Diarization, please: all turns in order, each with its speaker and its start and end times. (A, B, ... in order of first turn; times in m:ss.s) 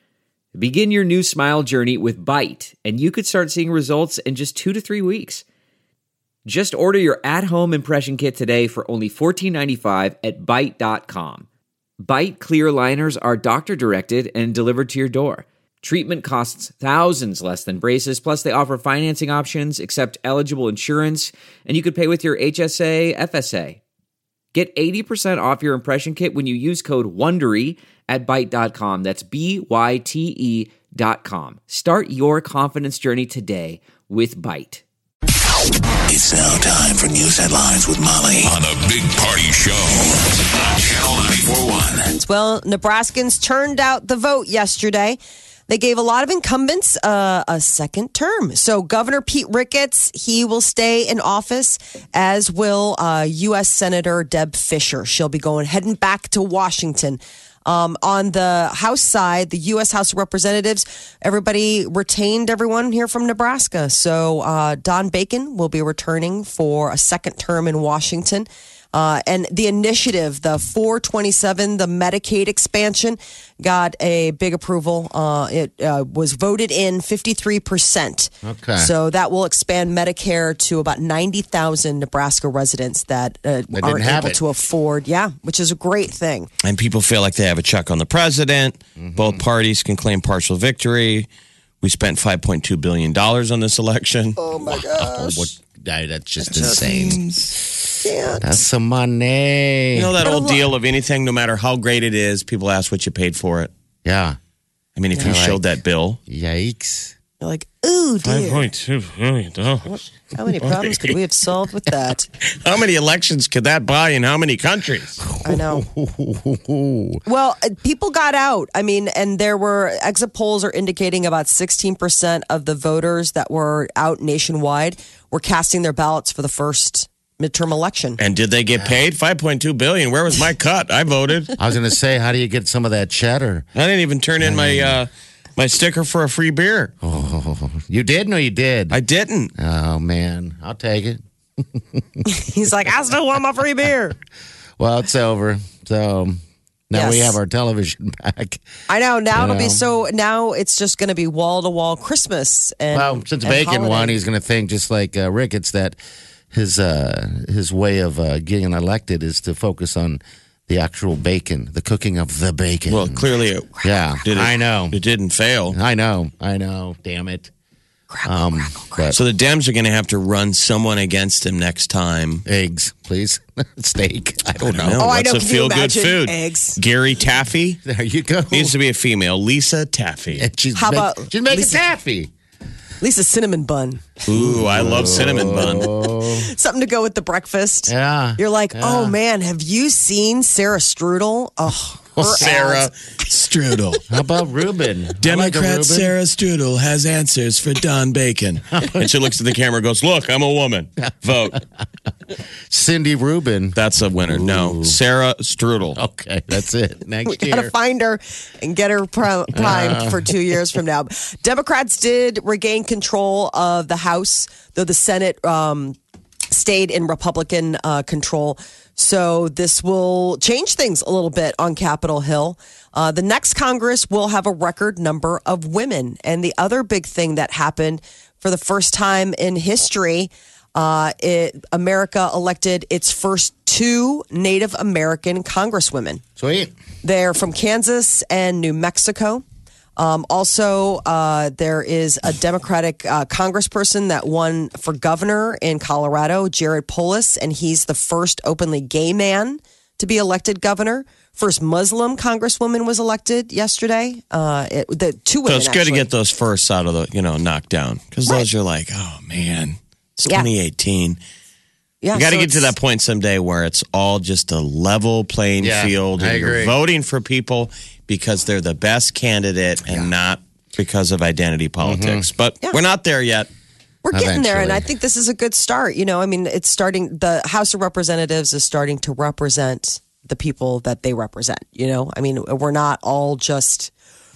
0:00.5-0:05.4 A
0:06.4-0:11.5 A
0:12.0-0:23.8 A
0:24.5-0:34.8 A
0:36.1-0:42.0 B
0:39.1-0:39.6 C
0:42.1-1:26.5 D
1:18.4-1:18.9 E
1:23.7-1:24.4 E
1:26.6-1:31.3 C
1:29.0-1:29.4 E
1:31.8-1:34.4 C
1:34.4-1:35.5 D
1:34.6-1:37.2 E
1:36.4-1:37.1 D
1:36.5-1:37.5 C
1:38.0-1:38.6 D
1:38.4-1:40.2 E
1:39.9-1:43.7 C
1:40.2-1:40.7 D
1:44.0-1:44.4 E
1:45.0-1:46.2 C
1:45.2-1:45.6 E
1:46.3-1:47.1 E
1:47.4-1:48.6 D
1:48.2-1:49.9 C
1:49.8-1:52.3 D
1:50.6-1:51.2 C
1:52.5-1:55.2 C
1:55.2-1:57.2 E
1:55.4-1:55.9 D
1:57.3-2:08.2 D
2:08.2-2:11.5 C
2:11.6-2:13.7 E
2:13.8-2:16.9 C
2:14.4-2:15.0 E
2:17.0-2:19.0 E
2:18.9-2:19.5 C
2:19.6-2:22.2 E
2:22.2-2:24.2 D
2:24.8-2:28.6 E
2:26.9-2:27.4 D
2:28.9-2:34.2 D
2:29.3-2:29.8 E
2:32.9-2:36.0 E
2:36.5-2:43.3 E
2:42.9-2:45.8 C
2:43.8-2:45.0 E
2:45.7-2:47.5 E
2:48.1-2:49.2 D
2:48.2-2:49.2 E
2:49.2-2:52.4 C
2:52.5-2:55.1 E
2:54.6-2:57.8 C
2:55.0-2:56.8 D
2:57.8-2:58.8 E
2:58.5-3:00.5 C
3:00.4-3:02.3 E
3:00.8-3:01.8 D
3:03.0-3:04.1 D
3:04.3-3:05.9 C
3:04.3-3:06.5 E
3:05.5-3:12.9 D
3:07.9-3:09.2 E
3:12.2-3:12.5 E
3:12.2-3:14.1 C
3:14.1-3:16.2 E
3:15.2-3:21.6 C
3:18.7-3:19.1 E
3:22.7-3:23.8 E
3:23.8-3:26.0 C
3:24.3-3:25.0 E
3:26.0-3:27.7 E
3:27.3-3:36.0 D
3:29.5-3:30.3 E
3:36.5-3:56.2 D
3:56.4-3:56.7 E
3:57.0-3:59.4 D
4:00.0-4:16.1 D
4:15.5-4:21.2 C
4:22.0-4:22.7 D
4:22.1-4:33.5 C
4:25.6-4:26.7 E
4:31.8-4:32.3 E
4:34.0-4:43.9 D
4:34.1-4:34.9 E